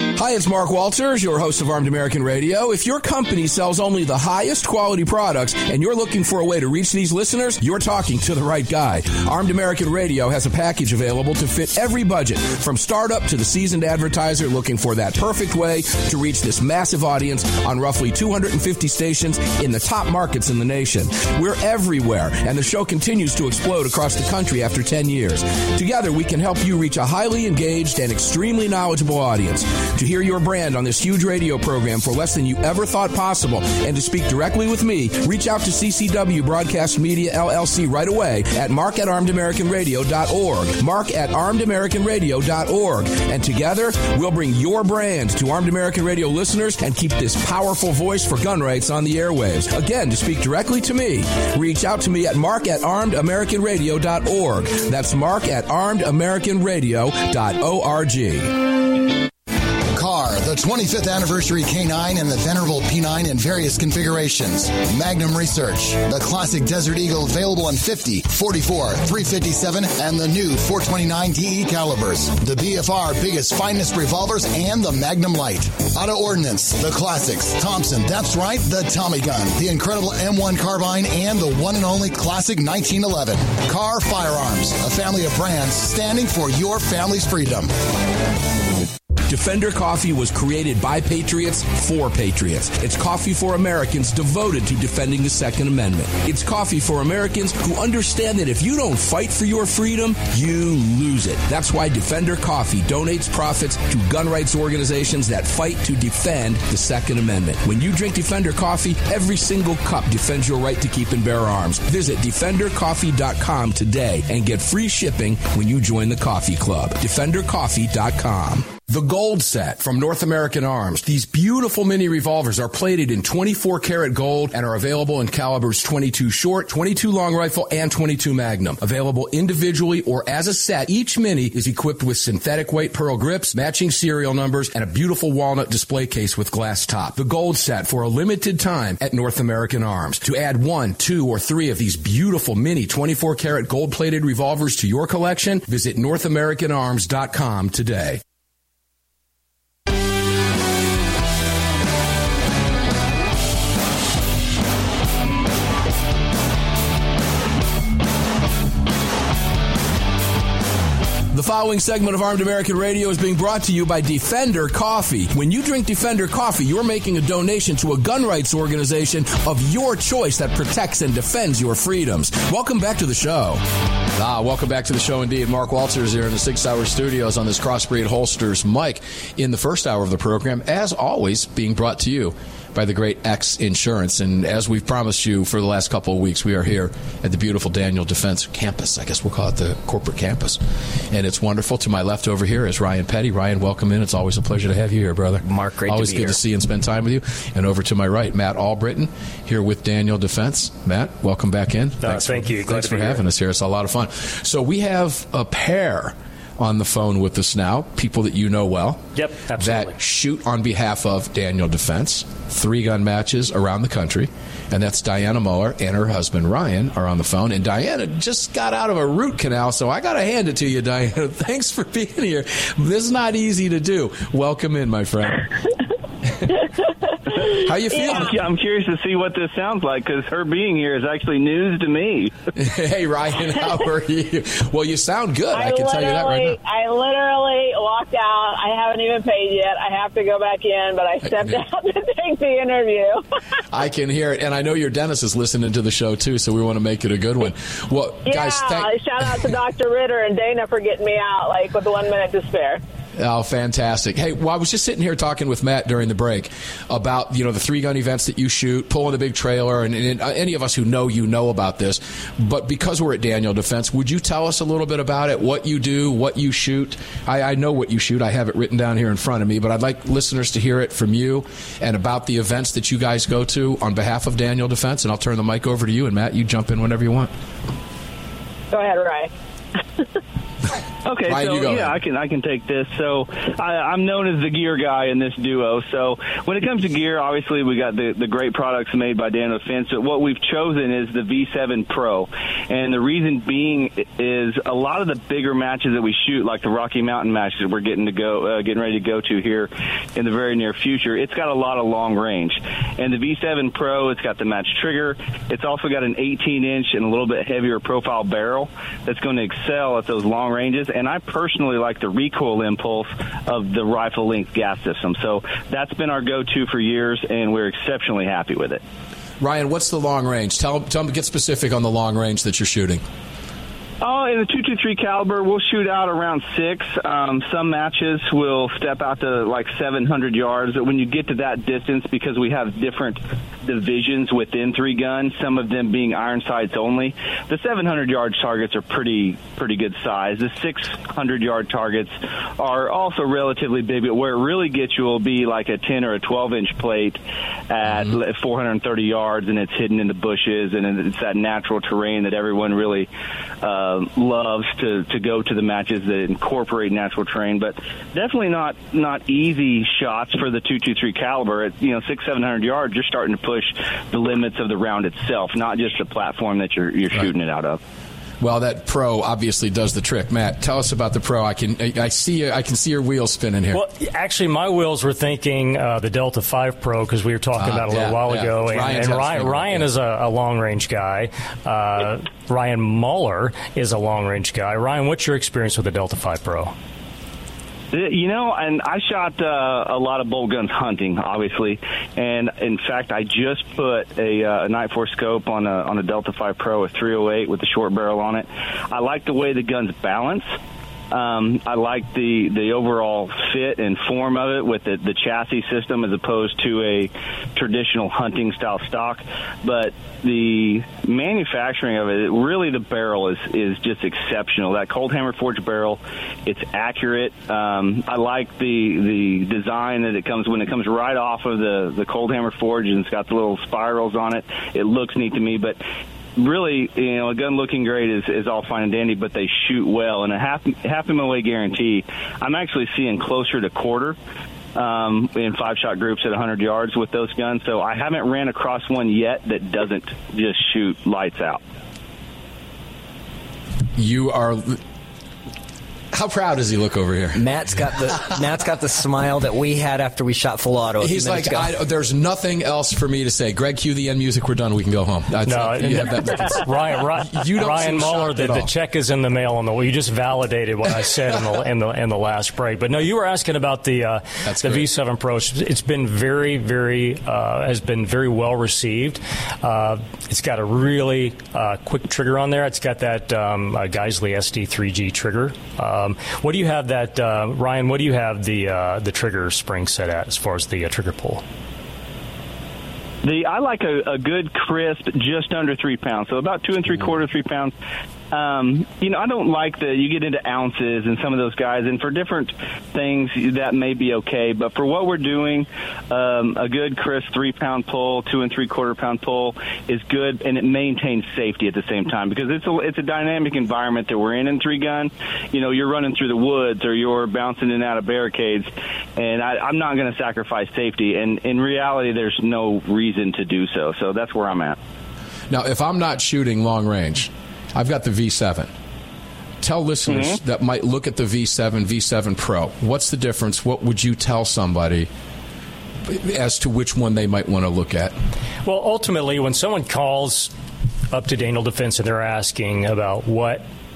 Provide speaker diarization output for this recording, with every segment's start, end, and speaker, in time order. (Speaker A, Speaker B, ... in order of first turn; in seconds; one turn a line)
Speaker A: 0.1-58.5
Speaker B: 59.9-87.7
Speaker A: 89.3-148.2
Speaker A: 161.3-173.6
Speaker A: 174.2-225.5
Speaker C: 195.4-196.4
Speaker D: 202.0-203.2
Speaker D: 209.1-209.9
Speaker A: 227.5-228.3
Speaker E: 227.9-228.3
Speaker F: 228.1-232.3
Speaker A: 232.5-236.6
Speaker E: 235.5-243.2
Speaker A: 241.3-241.6
Speaker A: 243.7-249.5
Speaker E: 248.2-252.8
Speaker A: 253.2-277.3
Speaker E: 278.7-279.3
Speaker F: 281.0-318.8
Speaker A: 281.3-281.9
Speaker A: 319.4-323.0
Speaker F: 324.0-347.2
Speaker F: 347.7-353.1
Speaker F: 353.6-367.8
Speaker A: 368.4-373.8
Speaker D: 373.7-386.7
Speaker A: 377.6-379.9
Speaker F: 387.9-400.5
Speaker F: 401.1-425.8
Speaker F: 426.4-434.2
Speaker F: 434.7-441.6
Speaker A: 443.9-444.8
Speaker A: 446.1-447.4
Speaker C: 447.4-451.7
Speaker A: 451.0-456.7
Speaker D: 455.5-481.4
Speaker A: 457.3-458.7
Speaker A: 464.4-464.9
Speaker F: 483.2-487.7
Speaker F: 488.3-514.8
Speaker A: 515.5-518.7
Speaker A: 519.6-525.1
Speaker F: 520.1-520.4
Speaker A: 526.0-528.1
Speaker D: 528.6-530.5
Speaker D: 531.1-533.6